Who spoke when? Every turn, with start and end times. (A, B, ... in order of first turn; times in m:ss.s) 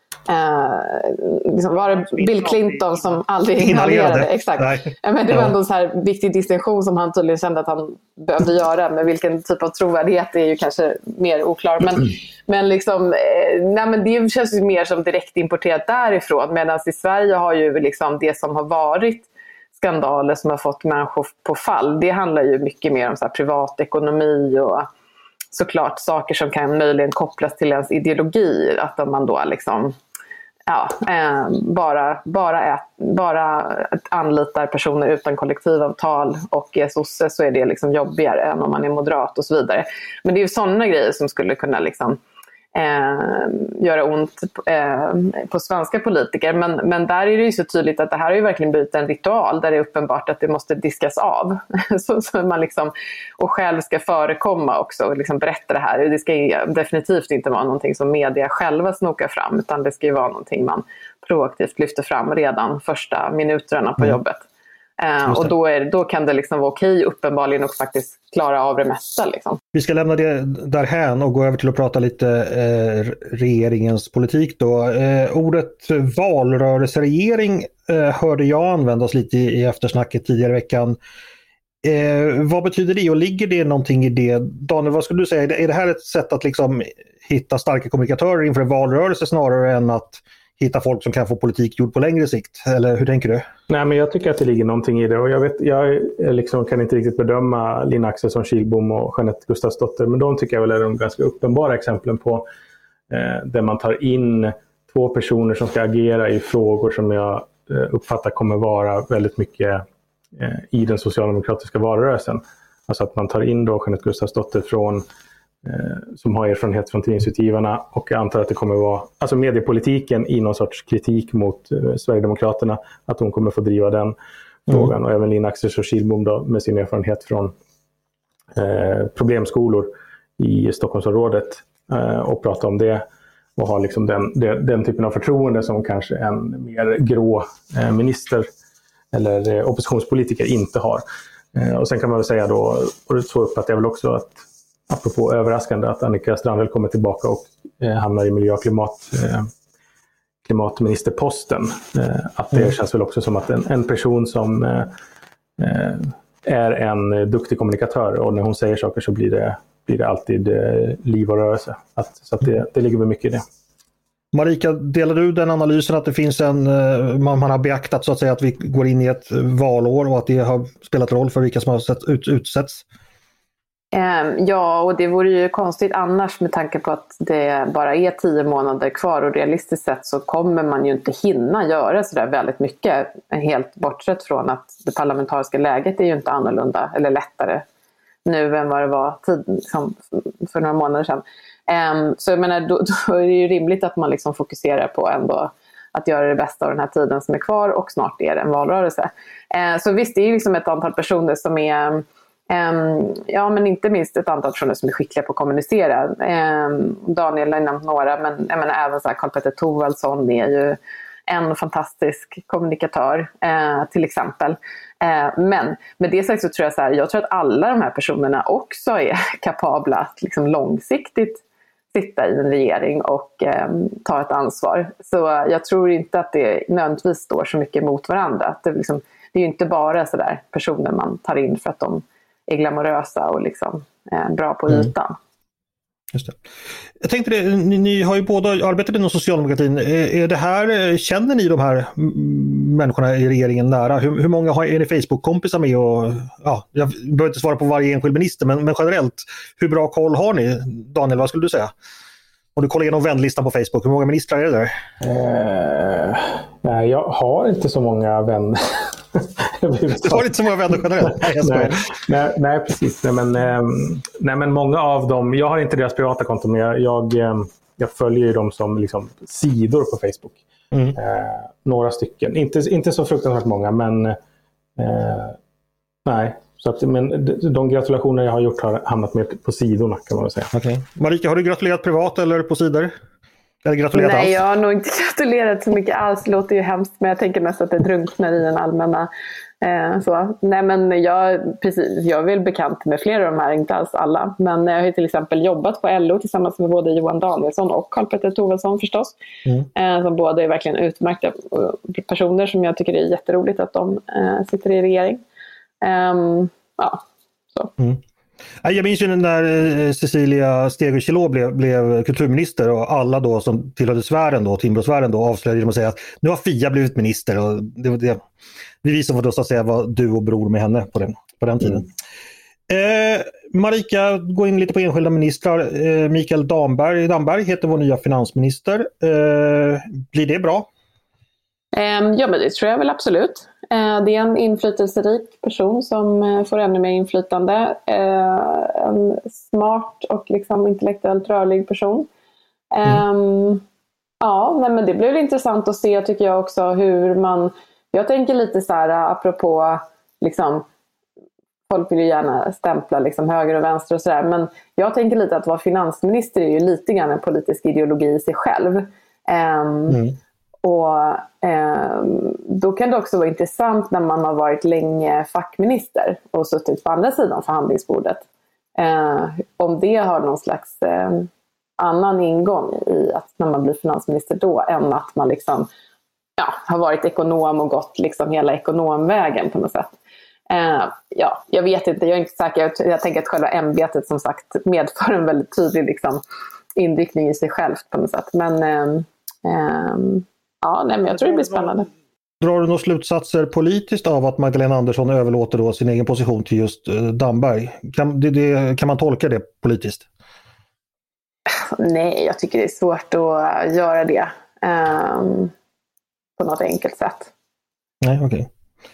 0:00.3-0:24.9 A
0:03.6-0:05.5 B
0:25.5-0:30.0 A
0:30.7-0:42.2 A
0:42.7-1:04.4 A
1:05.0-1:09.6 A
1:05.2-1:05.5 B
1:09.7-1:21.0 B
1:21.8-1:33.4 B
1:33.7-1:42.4 C
1:43.1-1:49.8 C
1:50.3-1:55.0 C
1:55.6-2:04.2 C
2:04.7-2:07.5 C
2:08.5-2:13.0 C
2:13.6-2:18.5 C
2:19.1-2:29.5 C
2:30.4-2:34.9 C
2:35.6-2:43.4 C
2:44.3-2:52.8 B
2:53.9-3:07.6 A
3:08.2-3:41.4 A
3:41.9-3:55.2 A
3:57.0-4:11.7 B
4:12.6-4:14.7 B
4:15.0-4:20.3 C
4:20.0-4:21.9 B
4:21.1-4:30.4 C
4:30.7-4:31.0 B
4:30.9-4:34.2 C
4:34.8-4:35.4 C
4:36.0-4:40.5 C
4:40.5-4:42.9 B
4:43.6-4:44.4 B
4:43.9-4:49.1 A
4:49.6-4:59.2 A
4:59.7-5:05.2 A
5:05.8-5:07.0 A
5:08.6-5:18.2 B
5:18.8-5:21.9 B
5:22.7-5:30.7 B
5:31.7-5:42.1 A
5:42.7-5:43.6 A
5:44.2-5:50.6 A
5:51.7-6:00.0 A
6:00.6-6:08.2 A
6:08.8-6:15.7 A
6:16.4-6:20.0 A
6:20.5-6:26.2 A
6:26.7-6:31.9 A
6:32.4-6:40.1 B
6:41.5-6:45.5 A
6:46.4-6:47.3 A
6:48.0-6:48.5 B